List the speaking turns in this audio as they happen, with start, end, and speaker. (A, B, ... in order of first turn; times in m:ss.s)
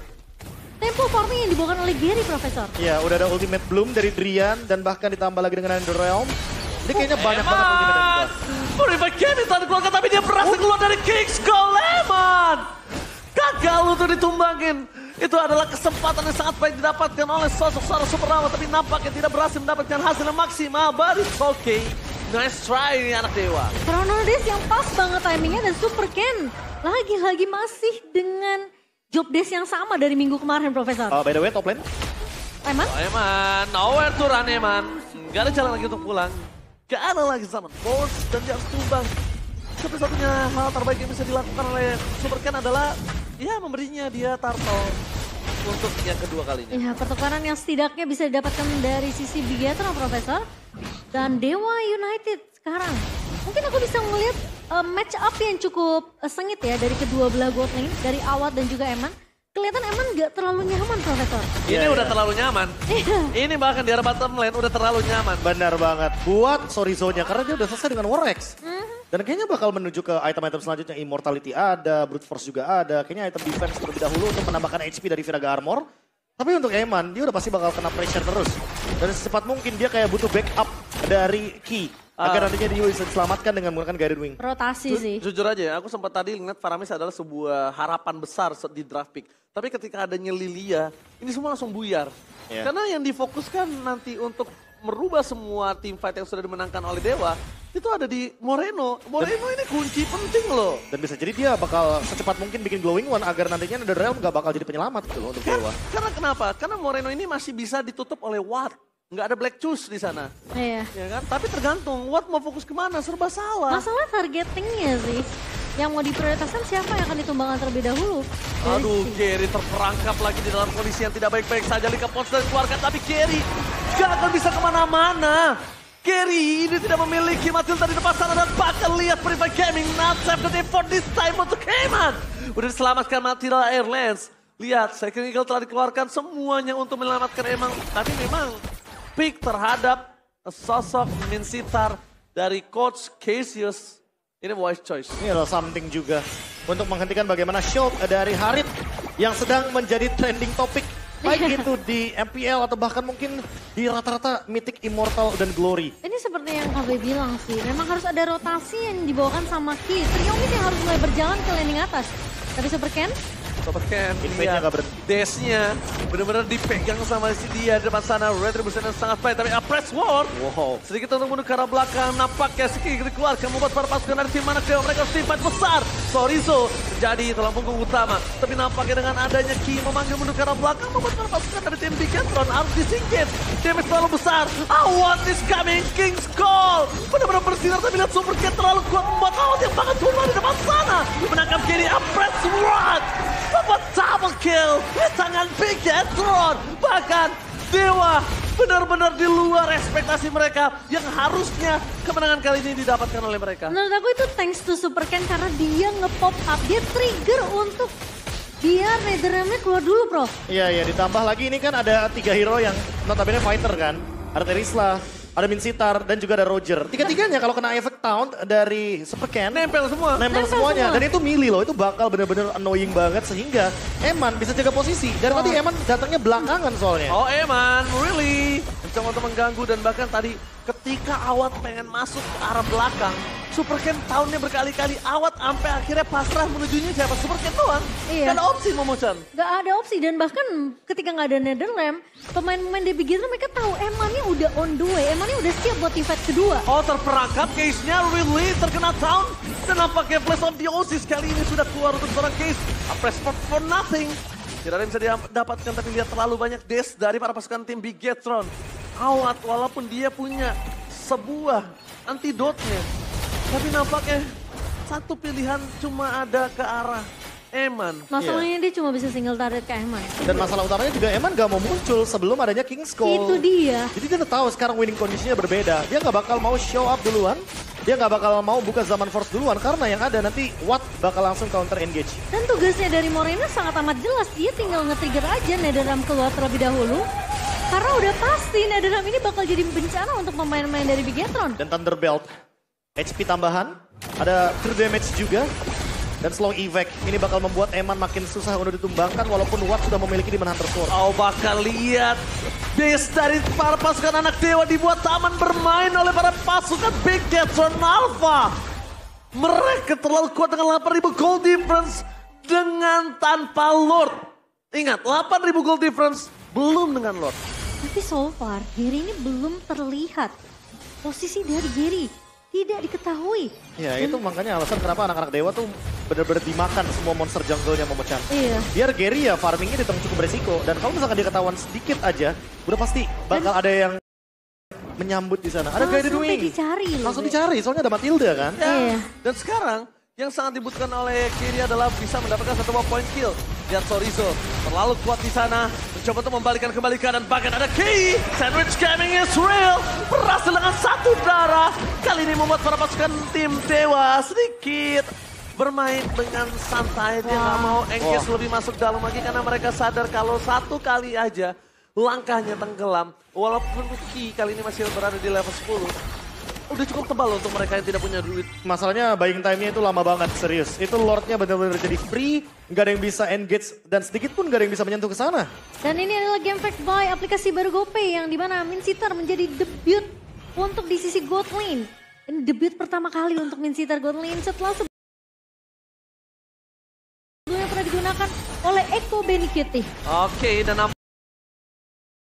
0:00.8-0:02.7 A
0:02.8-0:06.3 B
0:06.8-0:08.3 B
0:07.0-0:12.7 C
0:13.4-0:23.8 C
0:23.9-0:31.2 A
0:31.1-0:31.8 B
0:32.6-0:32.9 A
0:32.8-0:39.1 C
0:39.8-0:45.0 C
0:45.6-0:46.9 C
0:46.7-0:50.4 A
0:51.1-1:01.6 A
1:01.7-1:02.8 C
1:01.7-1:02.2 B
1:02.9-1:03.3 A
1:03.3-1:05.4 C
1:05.4-1:08.5 B
1:08.6-1:09.0 A
1:09.1-1:15.8 B
1:16.4-1:24.4 B
1:22.2-1:22.6 C
1:24.4-1:25.2 A
1:24.9-1:32.1 C
1:32.6-1:40.8 C
1:40.9-1:45.8 B
1:45.4-1:50.3 C
1:50.6-1:50.9 A
1:50.9-1:53.9 C
1:53.7-1:59.2 A
1:58.6-2:18.6 C
2:19.2-2:25.2 C
2:25.2-2:28.7 B
2:29.2-2:35.9 B
2:31.2-2:31.7 A
2:36.0-2:43.2 A
2:43.7-3:23.8 C
2:44.2-2:45.0 B
2:50.3-2:50.8 B
3:23.7-3:27.9 A
3:28.6-3:30.3 A
3:30.5-3:39.6 B
3:39.5-3:40.3 C
3:40.2-3:47.2 B
3:40.3-3:41.0 A
3:45.3-3:45.6 C
3:47.1-3:59.2 C
3:58.1-3:58.4 A
3:59.3-4:06.6 A
4:06.7-4:22.9 C
4:23.5-4:24.3 C
4:24.9-4:28.1 C
4:28.1-4:30.5 A
4:28.2-4:28.5 B
4:30.2-4:33.4 B
4:33.0-4:33.9 A
4:34.0-4:42.2 B
4:42.3-4:47.0 A
4:47.7-4:51.6 A
4:51.6-4:52.3 B
4:53.0-4:55.5 B
4:56.2-5:00.9 B
5:00.9-5:02.2 C
5:02.7-5:08.6 C
5:09.4-5:17.4 C
5:17.8-5:20.3 A
5:21.0-5:24.2 A
5:23.8-5:34.0 B
5:28.3-5:28.7 A
5:35.0-5:38.6 B
5:35.8-5:37.4 A
5:38.6-6:06.0 C
5:38.6-5:39.1 A
5:57.2-5:57.8 A
5:58.0-5:58.3 B
6:06.7-6:08.5 C
6:08.6-6:15.5 B
6:15.8-6:24.9 A
6:27.5-6:29.9 A
6:30.1-6:30.9 C